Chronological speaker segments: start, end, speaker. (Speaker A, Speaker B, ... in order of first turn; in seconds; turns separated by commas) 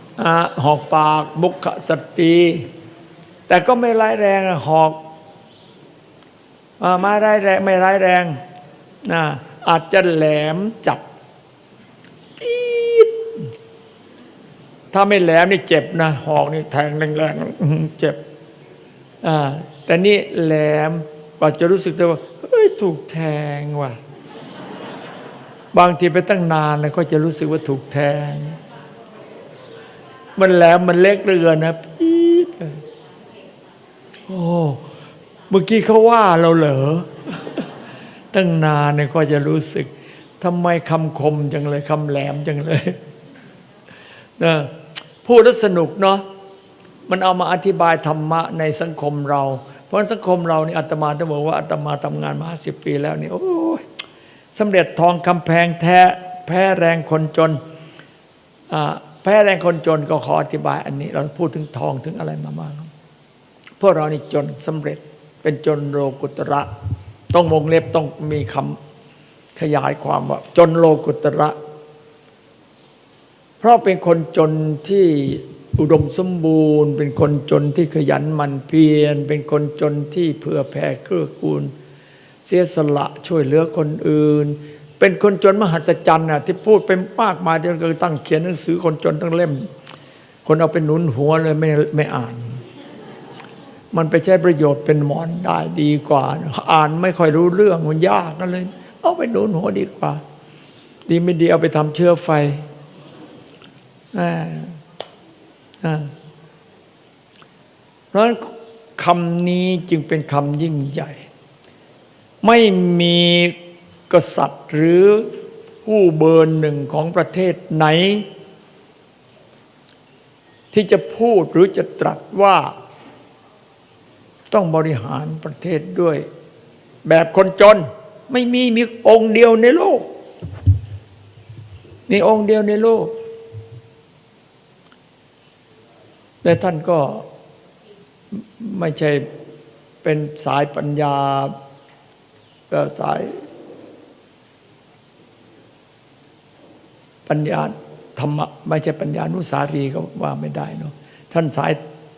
Speaker A: 0.2-2.7, Speaker A: 3.5-5.0, Speaker A: 6.8-8.4, Speaker A: 9.0-11.0, Speaker A: 12.4-13.5, Speaker A: 14.9-18.2, Speaker A: 19.2-24.0, Speaker A: 25.7-28.6, Speaker A: 30.4-32.8, Speaker A: 34.3-34.9, Speaker A: 35.5-37.7, Speaker A: 38.3-43.0, Speaker A: 44.4-46.2, Speaker A: 47.1-53.9, Speaker A: 54.5-57.6, Speaker A: 58.7-62.9, Speaker A: 63.8-66.7, Speaker A: 67.3-68.8, Speaker A: 69.5-71.5, Speaker A: 73.6-81.7, Speaker A: 82.4-89.7, Speaker A: 90.4-92.6, Speaker A: 93.9-100.2, Speaker A: 101.1-102.6, Speaker A: 104.1-104.8, Speaker A: 105.8-106.1, Speaker A: 108.1-111.2, Speaker A: 112.4-113.6, Speaker A: 114.1-118.3, Speaker A: 120.7-122.7, Speaker A: 124.5-126.2, Speaker A: 127.0-130.1, Speaker A: 132.1-133.2, Speaker A: 136.4-137.3, Speaker A: 138.3-139.2, Speaker A: 140.0-141.5, Speaker A: 142.7-143.4, Speaker A: 147.2-151.8